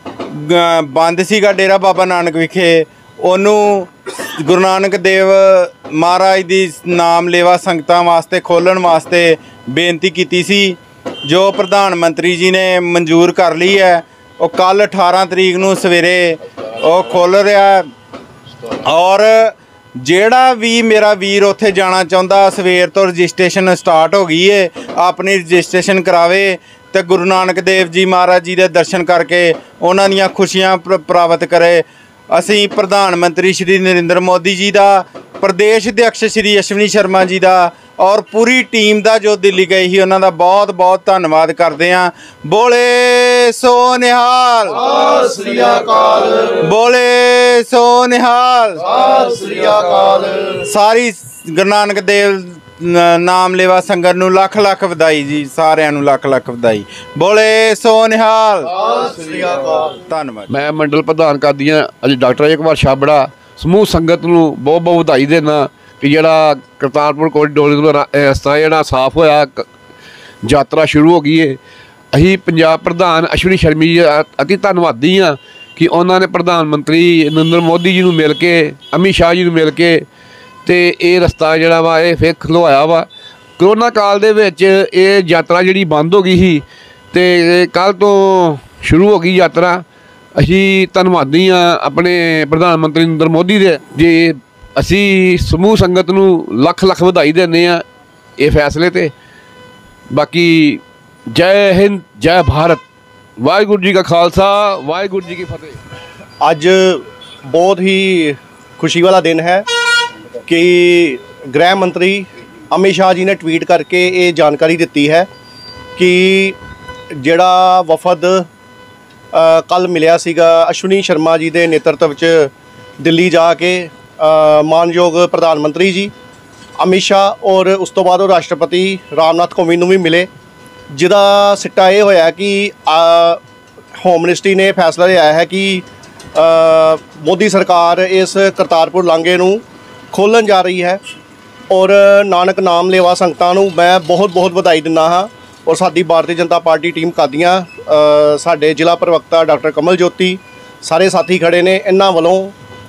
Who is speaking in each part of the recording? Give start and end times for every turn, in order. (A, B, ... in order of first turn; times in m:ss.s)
0:00.3-0:17.9 A
0:18.7-0:44.8 A
0:44.8-0:46.5 B
0:46.6-0:48.8 A
0:48.8-0:50.6 B
0:50.7-0:58.7 A
0:58.7-1:00.0 B
1:00.0-1:00.5 A
1:00.5-1:09.6 C
1:10.4-1:11.6 C
1:12.1-1:20.0 C
1:20.6-1:23.1 C
1:23.6-1:29.8 C
1:30.4-1:37.8 C
1:38.4-1:39.1 C
1:40.1-1:42.8 C
1:43.4-1:45.8 C
1:46.4-1:49.7 B
1:50.4-1:55.3 B
1:56.0-1:56.6 B
1:57.1-1:58.5 B
1:59.3-2:06.1 B
2:06.8-2:10.3 B
2:10.9-2:13.4 B
2:14.0-2:21.0 B
2:21.7-2:32.5 B